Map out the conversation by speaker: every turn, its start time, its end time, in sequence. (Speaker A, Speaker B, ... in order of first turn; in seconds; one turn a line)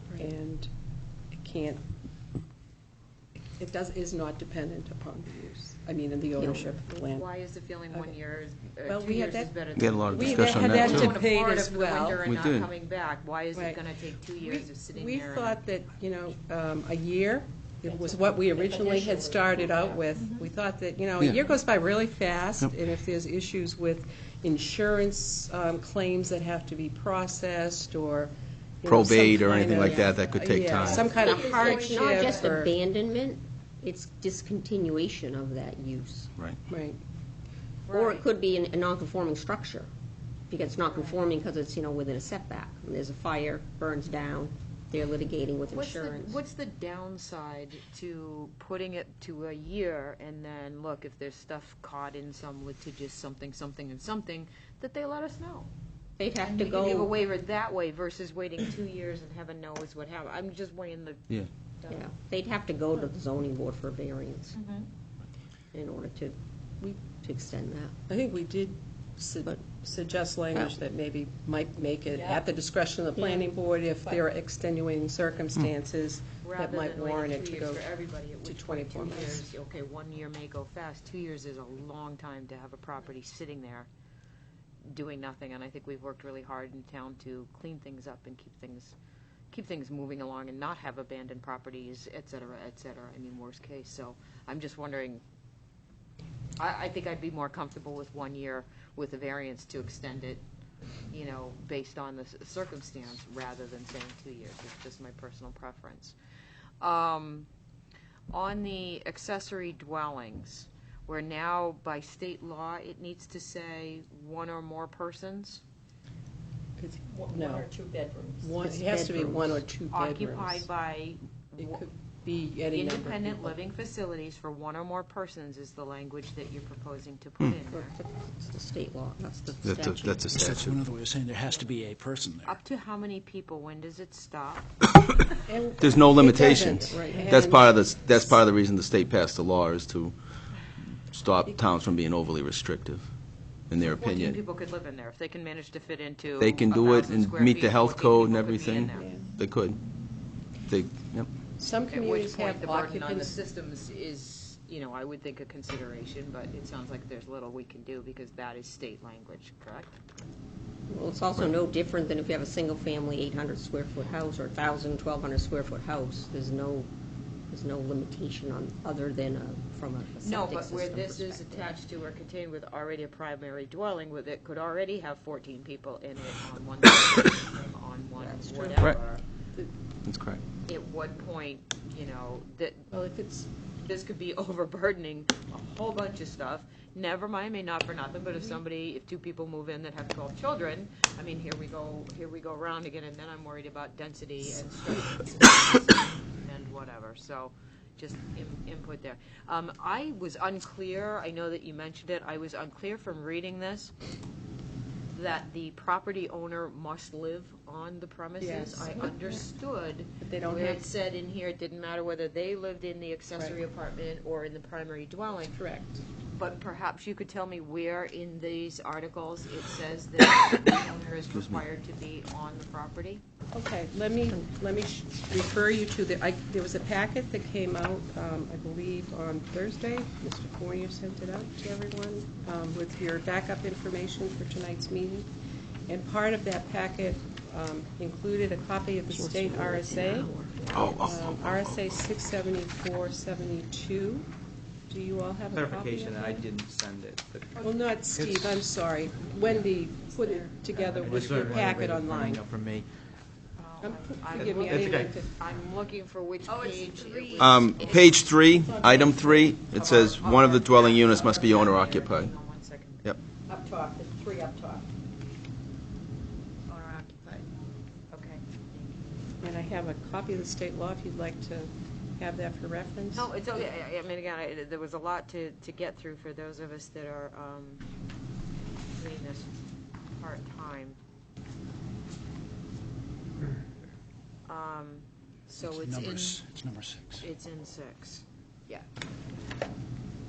Speaker A: 0.1-0.7
Speaker A: 1.3-1.8
Speaker A: 3.6-7.3
Speaker B: 6.4-6.7
Speaker C: 7.0-15.6
Speaker A: 8.8-9.5
Speaker D: 9.8-11.1
Speaker A: 10.1-12.2
Speaker D: 12.2-12.7
Speaker A: 13.5-13.8
Speaker A: 14.4-28.3
Speaker E: 17.9-20.0
Speaker A: 28.8-32.7
Speaker D: 28.9-31.1
Speaker E: 30.8-32.5
Speaker B: 31.0-36.3
Speaker C: 31.2-31.7
Speaker A: 36.7-37.0
Speaker C: 37.9-38.2
Speaker B: 37.9-39.9
Speaker B: 40.5-46.4
Speaker C: 40.9-41.2
Speaker C: 45.6-55.7
Speaker B: 56.2-57.2
Speaker C: 56.4-62.0
Speaker B: 61.9-64.5
Speaker C: 64.5-64.9
Speaker B: 65.7-67.9
Speaker A: 68.1-77.8
Speaker B: 73.2-73.4
Speaker C: 76.4-83.9
Speaker A: 78.4-79.4
Speaker C: 84.9-88.9
Speaker C: 89.5-95.2
Speaker C: 96.6-100.4
Speaker C: 101.1-106.2
Speaker C: 106.8-107.5
Speaker C: 108.3-115.6
Speaker A: 116.8-117.7
Speaker E: 117.1-118.5
Speaker A: 118.4-120.7
Speaker B: 118.6-119.6
Speaker C: 119.9-121.8
Speaker A: 121.6-123.5
Speaker C: 122.7-128.0
Speaker B: 127.7-130.3
Speaker D: 129.6-130.8
Speaker F: 130.3-132.6
Speaker C: 132.4-134.7
Speaker A: 135.4-137.8
Speaker D: 135.8-140.1
Speaker D: 141.1-143.1
Speaker D: 143.7-144.4
Speaker C: 143.8-149.1
Speaker D: 146.4-149.8
Speaker A: 148.9-149.2
Speaker D: 150.7-151.3
Speaker A: 151.6-153.3
Speaker C: 151.8-160.0
Speaker B: 160.9-166.9
Speaker B: 167.5-171.8
Speaker C: 170.2-179.2
Speaker B: 178.2-178.7
Speaker D: 180.1-180.4
Speaker C: 180.7-182.9
Speaker A: 182.9-183.5
Speaker C: 183.8-203.9
Speaker C: 205.1-215.6
Speaker A: 208.4-209.2
Speaker A: 210.2-210.8
Speaker A: 213.3-213.6
Speaker A: 215.5-216.0
Speaker C: 216.3-223.2
Speaker D: 221.3-221.6
Speaker A: 223.5-235.3
Speaker A: 235.9-240.3
Speaker B: 239.1-241.0
Speaker D: 240.7-241.3
Speaker A: 240.9-244.3
Speaker A: 244.9-246.5
Speaker G: 245.5-247.6
Speaker E: 247.6-248.1
Speaker A: 247.6-252.4
Speaker G: 248.2-248.4
Speaker E: 250.2-251.2
Speaker G: 251.0-252.9
Speaker C: 253.6-258.3
Speaker A: 253.8-255.3
Speaker G: 254.4-255.1
Speaker E: 256.5-258.2
Speaker D: 257.4-262.3
Speaker A: 258.5-260.1
Speaker C: 259.8-263.1
Speaker A: 263.5-264.8
Speaker C: 268.1-268.7
Speaker A: 269.4-273.3
Speaker C: 273.1-277.8
Speaker C: 279.0-279.5
Speaker C: 280.2-281.0
Speaker C: 284.5-286.4
Speaker F: 285.6-287.2
Speaker C: 287.2-288.8